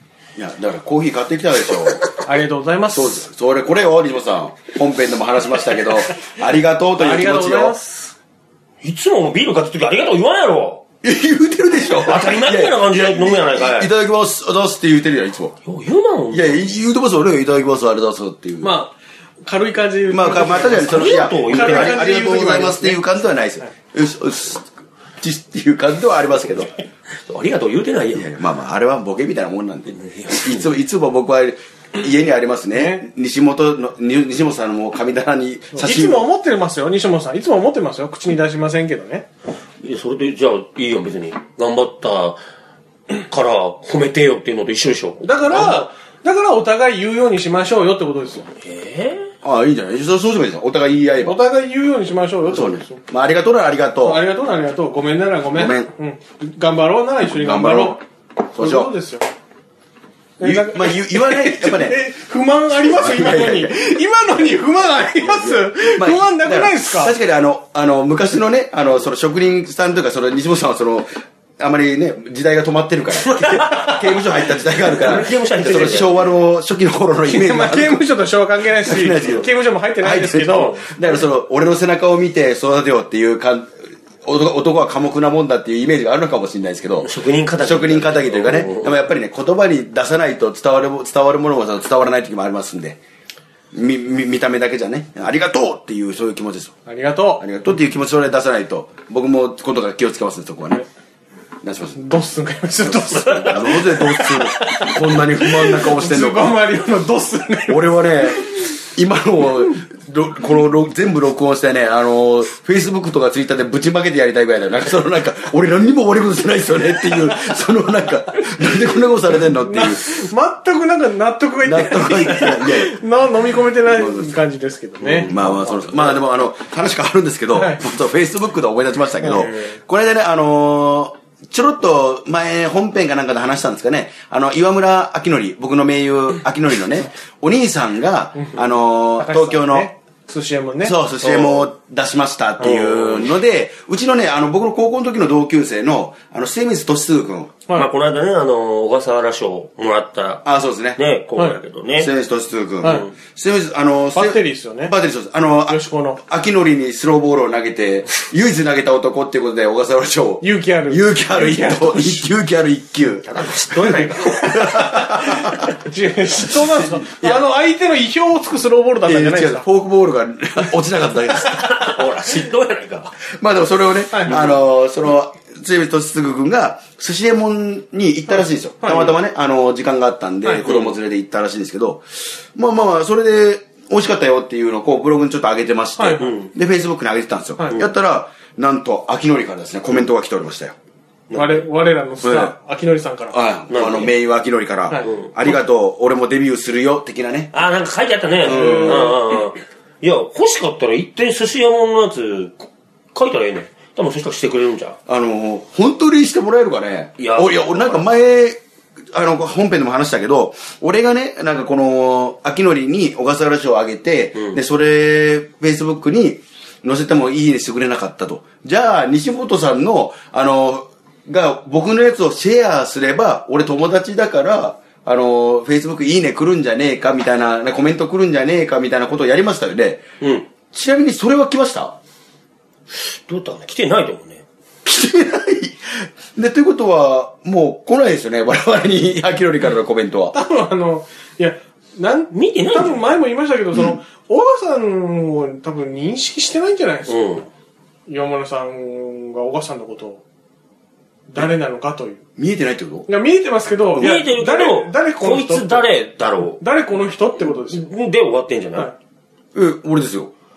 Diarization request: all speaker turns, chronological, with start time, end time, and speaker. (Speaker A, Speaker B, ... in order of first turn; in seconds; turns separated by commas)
Speaker A: 0.4-2.0, Speaker B: 2.2-3.2, Speaker A: 2.9-7.8, Speaker B: 7.0-8.1, Speaker C: 8.8-10.8, Speaker A: 11.0-15.5, Speaker C: 12.0-13.9, Speaker C: 15.6-16.7, Speaker A: 16.3-18.7, Speaker B: 18.6-23.7, Speaker A: 20.1-26.7, Speaker C: 20.9-22.0, Speaker C: 27.3-28.3, Speaker A: 28.1-36.2, Speaker C: 30.0-30.6, Speaker B: 32.7-33.0, Speaker B: 35.7-39.2, Speaker C: 39.8-42.4, Speaker C: 43.1-45.8, Speaker B: 45.2-48.5, Speaker C: 48.6-49.3, Speaker A: 49.4-51.4, Speaker B: 51.2-53.0, Speaker A: 52.5-54.2, Speaker B: 54.0-58.0, Speaker A: 55.5-55.9, Speaker A: 57.2-58.0, Speaker A: 58.5-58.9, Speaker B: 58.5-59.2, Speaker A: 60.4-62.0, Speaker B: 60.4-67.1, Speaker A: 62.8-63.7, Speaker A: 65.2-78.0, Speaker C: 73.2-74.1, Speaker C: 74.8-76.2, Speaker B: 77.3-80.8, Speaker A: 78.8-93.0, Speaker C: 80.5-80.9, Speaker C: 87.0-89.0, Speaker A: 93.7-96.7, Speaker B: 96.8-97.4, Speaker A: 97.4-100.8, Speaker A: 101.6-102.0, Speaker B: 102.0-103.8, Speaker A: 102.8-106.5, Speaker C: 103.1-105.0, Speaker B: 105.4-108.4, Speaker A: 107.7-120.2, Speaker B: 119.4-126.0, Speaker A: 121.6-123.0, Speaker A: 123.8-124.4, Speaker C: 125.0-125.5, Speaker A: 125.2-139.9, Speaker B: 127.5-127.8, Speaker B: 138.3-140.9, Speaker A: 140.8-147.5, Speaker C: 141.2-141.7, Speaker C: 142.6-143.1, Speaker C: 147.7-152.1, Speaker A: 150.4-151.0, Speaker B: 151.3-151.6, Speaker A: 152.0-165.7, Speaker B: 152.8-153.1, Speaker B: 154.1-154.9, Speaker B: 155.7-156.2, Speaker B: 160.4-162.3, Speaker C: 163.2-164.6, Speaker B: 164.3-169.7, Speaker A: 166.4-167.4, Speaker A: 169.0-172.1, Speaker C: 171.3-173.1, Speaker A: 173.4-190.7, Speaker B: 174.1-174.5, Speaker B: 178.8-179.2, Speaker C: 180.6-180.9, Speaker B: 186.0-186.4, Speaker C: 186.2-186.5, Speaker C: 191.3-191.6, Speaker B: 191.3-193.4, Speaker A: 192.2-192.5, Speaker A: 193.3-197.6, Speaker C: 193.7-194.1, Speaker C: 195.0-195.3, Speaker C: 197.5-205.0, Speaker A: 198.4-199.2, Speaker B: 198.5-199.1, Speaker A: 205.1-208.6, Speaker C: 207.2-208.1, Speaker A: 209.1-230.0, Speaker C: 230.2-230.4, Speaker A: 230.7-232.0, Speaker C: 232.9-234.4, Speaker A: 234.8-240.3, Speaker B: 240.3-247.4, Speaker C: 242.3-243.1, Speaker C: 247.1-247.4, Speaker B: 248.1-250.2, Speaker B: 251.3-252.2, Speaker A: 252.4-253.1, Speaker B: 253.1-255.9, Speaker C: 253.9-256.6, Speaker B: 256.6-257.9, Speaker C: 257.4-258.9, Speaker A: 259.5-260.3